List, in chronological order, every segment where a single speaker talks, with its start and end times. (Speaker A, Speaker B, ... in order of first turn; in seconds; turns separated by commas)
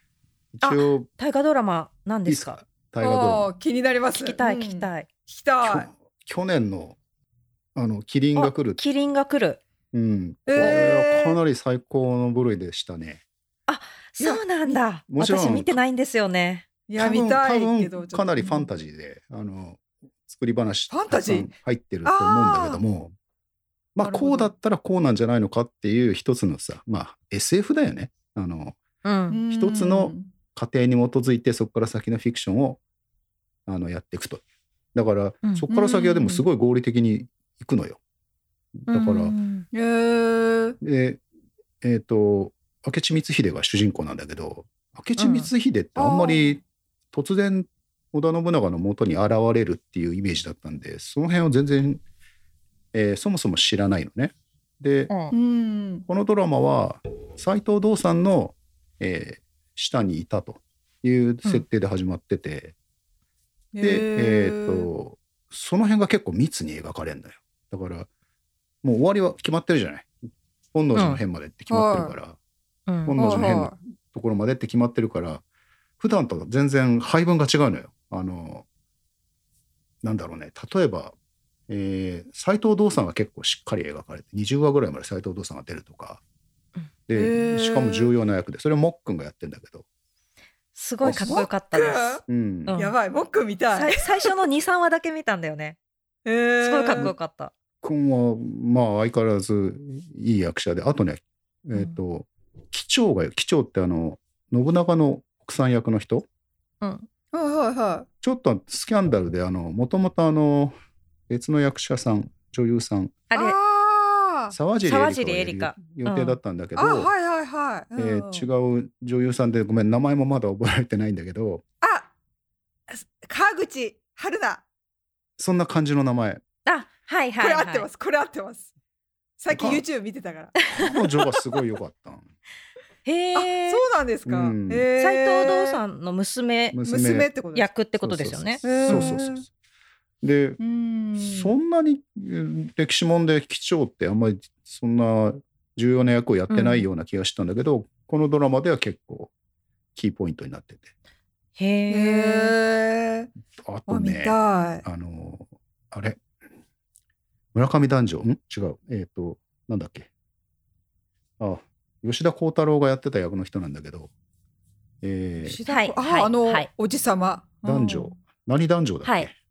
Speaker A: 0.5-1.1, Speaker B: 0.6-2.6, Speaker A: 2.2-3.5, Speaker C: 3.0-5.9, Speaker B: 4.1-5.1, Speaker A: 5.6-7.0, Speaker A: 7.7-8.8, Speaker B: 8.3-9.6, Speaker A: 9.9-13.2, Speaker C: 10.5-11.4, Speaker B: 13.7-16.6, Speaker A: 15.1-15.8, Speaker C: 16.9-18.7, Speaker A: 17.0-23.1, Speaker C: 20.9-21.5, Speaker C: 22.0-22.8, Speaker A: 23.9-28.8, Speaker C: 24.0-24.5, Speaker B: 29.0-29.4, Speaker C: 29.3-30.3, Speaker A: 29.5-32.8, Speaker A: 33.7-34.4, Speaker A: 34.9-38.0, Speaker C: 35.7-36.4, Speaker A: 38.8-39.3, Speaker B: 38.9-39.6, Speaker C: 39.7-40.8, Speaker A: 40.8-41.2, Speaker A: 41.8-46.6, Speaker B: 45.2-45.5, Speaker C: 46.0-46.6, Speaker A: 47.1-52.0, Speaker A: 52.9-55.1, Speaker B: 55.1-55.3, Speaker C: 55.3-56.0, Speaker A: 56.1-62.7, Speaker C: 63.7-64.9, Speaker A: 63.8-68.1, Speaker A: 68.8-70.2, Speaker A: 70.7-72.4, Speaker B: 70.9-71.2, Speaker C: 71.7-72.1, Speaker B: 72.9-73.2, Speaker A: 73.0-75.4, Speaker C: 73.1-73.7, Speaker A: 76.0-78.7, Speaker A: 80.0-81.1, Speaker A: 81.7-86.2, Speaker A: 87.1-89.8, Speaker C: 87.1-88.1, Speaker B: 90.7-92.9, Speaker C: 91.0-94.3, Speaker A: 92.3-92.7, Speaker B: 93.7-95.8, Speaker C: 96.2-97.1, Speaker B: 96.6-97.5, Speaker A: 97.8-106.3, Speaker B: 106.8-107.1, Speaker C: 107.3-108.1, Speaker A: 108.2-110.7, Speaker A: 111.3-113.2, Speaker B: 113.3-113.5, Speaker C: 113.3-114.5, Speaker A: 114.5-117.1, Speaker B: 114.8-116.4, Speaker C: 116.8-118.5, Speaker A: 118.0-121.6, Speaker C: 121.8-122.1, Speaker C: 122.9-124.6, Speaker A: 125.4-126.4, Speaker B: 126.7-127.9, Speaker C: 127.4-128.7, Speaker C: 129.4-130.7, Speaker A: 129.5-129.8, Speaker A: 130.7-132.3, Speaker B: 133.0-133.8, Speaker C: 133.3-135.8, Speaker A: 134.2-134.8, Speaker B: 135.0-136.8, Speaker A: 136.7-137.3, Speaker C: 136.8-137.7, Speaker B: 137.5-139.2, Speaker A: 138.0-139.5, Speaker C: 138.6-139.4, Speaker A: 140.2-140.6, Speaker C: 140.6-141.5, Speaker A: 141.2-149.3, Speaker B: 146.5-146.9, Speaker A: 149.9-150.9, Speaker B: 151.6-152.5, Speaker C: 151.9-153.3, Speaker A: 153.6-156.2, Speaker C: 153.9-154.8, Speaker A: 157.5-160.1, Speaker A: 161.4-164.1, Speaker A: 165.0-165.6, Speaker C: 165.4-168.2, Speaker B: 165.7-166.7, Speaker A: 167.6-169.3, Speaker B: 169.0-169.3